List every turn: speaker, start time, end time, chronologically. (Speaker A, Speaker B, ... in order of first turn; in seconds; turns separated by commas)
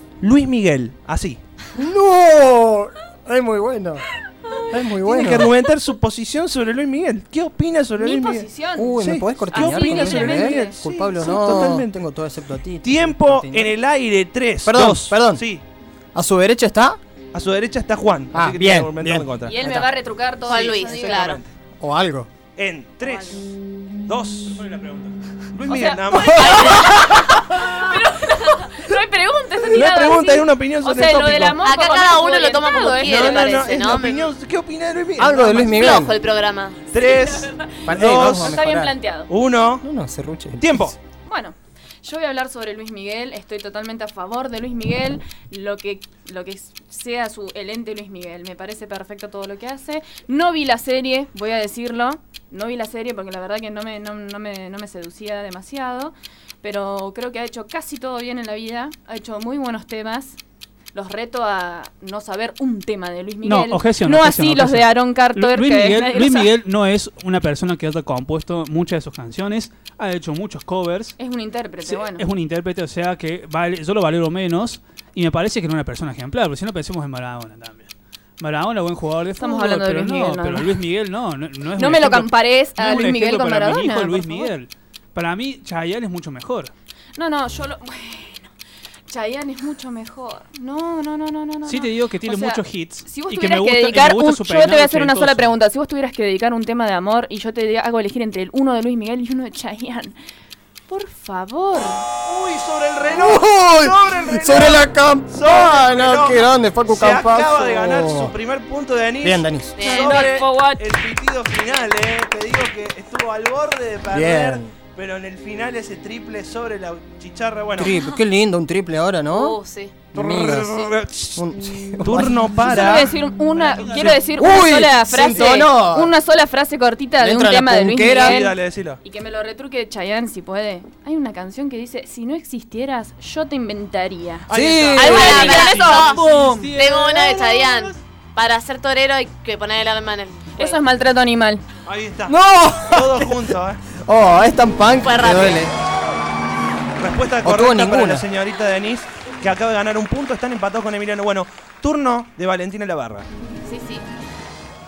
Speaker A: 0.2-1.4, Speaker B: 1.8-5.5, Speaker A: 5.0-8.5, Speaker C: 8.0-8.9, Speaker B: 8.8-13.8, Speaker A: 9.0-11.9, Speaker C: 9.5-10.8, Speaker A: 12.8-15.7, Speaker B: 14.7-15.4, Speaker B: 16.1-17.0, Speaker A: 17.3-19.6, Speaker B: 18.3-19.9, Speaker C: 19.4-21.4, Speaker D: 20.5-21.4, Speaker A: 20.5-21.5, Speaker B: 21.8-22.3, Speaker A: 22.6-23.5, Speaker C: 23.0-23.4, Speaker A: 24.1-24.7, Speaker E: 24.5-25.1, Speaker A: 25.5-26.9, Speaker C: 25.7-33.6, Speaker D: 26.2-27.2, Speaker A: 29.7-31.6, Speaker D: 31.6-34.3, Speaker A: 33.0-35.9, Speaker B: 35.2-36.2, Speaker D: 35.7-36.9, Speaker A: 36.9-38.6, Speaker C: 37.2-39.3, Speaker B: 37.9-39.0, Speaker A: 39.3-39.9, Speaker B: 39.8-41.0, Speaker A: 40.6-41.0, Speaker C: 41.2-60.4, Speaker C: 60.9-66.5, Speaker E: 63.4-71.2, Speaker C: 71.2-72.3, Speaker E: 71.8-86.7, Speaker C: 79.4-80.8, Speaker C: 81.8-84.5, Speaker C: 87.2-88.5, Speaker C: 89.1-100.2, Speaker E: 91.7-95.5, Speaker C: 100.9-102.0, Speaker A: 102.2-117.9, Speaker B: 103.1-108.3, Speaker B: 109.2-109.8, Speaker D: 109.8-110.5, Speaker C: 109.8-110.9, Speaker B: 114.1-114.8, Speaker B: 117.8-119.6, Speaker D: 117.9-118.2, Speaker D: 119.3-120.0, Speaker B: 120.1-123.1, Speaker A: 120.1-121.5, Speaker A: 122.0-124.2, Speaker C: 122.6-134.5, Speaker E: 123.5-124.4, Speaker B: 124.4-126.1, Speaker A: 125.2-125.7, Speaker B: 127.2-128.4, Speaker A: 128.2-129.0, Speaker B: 134.5-135.6, Speaker A: 134.5-136.0, Speaker D: 134.9-136.2, Speaker E: 135.0-138.0, Speaker C: 135.1-136.7, Speaker D: 136.7-140.8, Speaker C: 140.6-141.6, Speaker A: 141.8-142.3, Speaker B: 142.3-145.7, Speaker A: 142.9-143.8, Speaker D: 145.0-145.7, Speaker A: 147.0-153.3, Speaker B: 147.4-148.3, Speaker D: 153.7-154.1